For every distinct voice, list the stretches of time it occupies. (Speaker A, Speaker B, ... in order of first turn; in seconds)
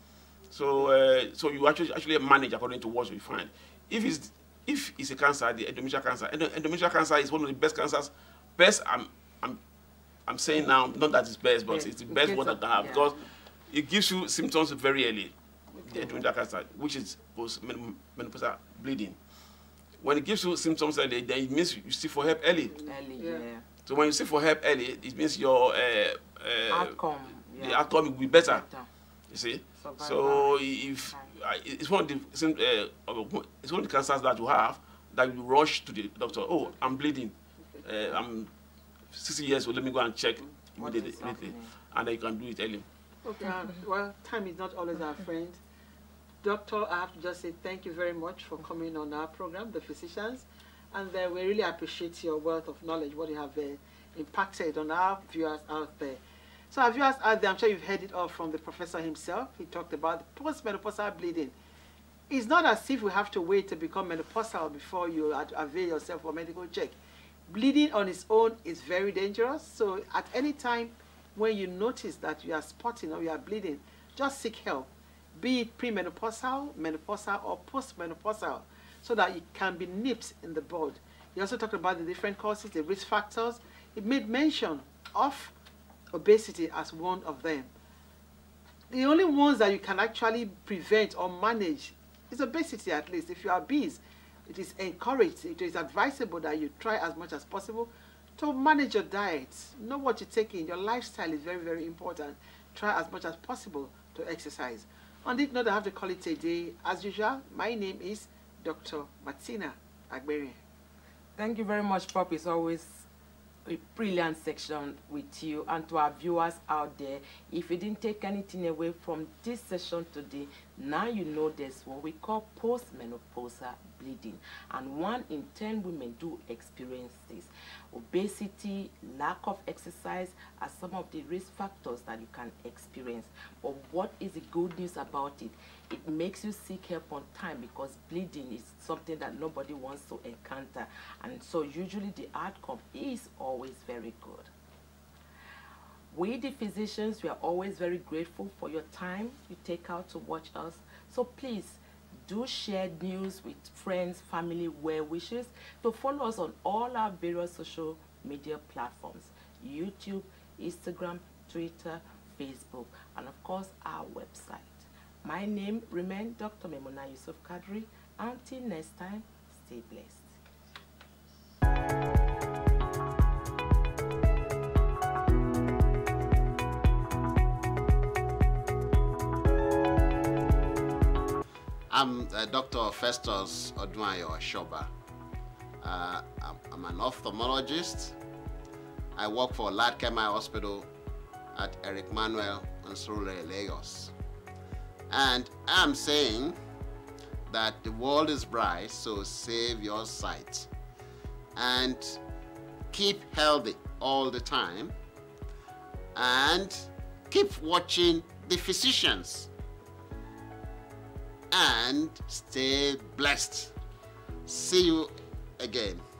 Speaker A: 0.5-9.6, 10.3-19.1, 20.0-22.8, 23.8-27.0, 27.5-28.6, 29.3-38.5, 39.1-42.9
Speaker B: 11.7-13.1, 22.8-23.7, 26.7-28.9, 29.8-30.6, 40.8-41.7, 111.3-113.0, 113.6-144.5, 146.1-170.3
Speaker C: 22.8-23.4, 43.2-45.6, 46.4-61.5, 62.3-67.0, 67.5-85.5, 86.1-87.7, 88.9-110.6
Speaker D: 181.9-184.9, 185.8-188.2, 189.2-190.9, 191.5-194.1, 195.1-196.6, 197.5-200.7, 201.6-202.2, 202.9-204.9, 206.1-209.5, 211.5-213.7, 214.4-216.0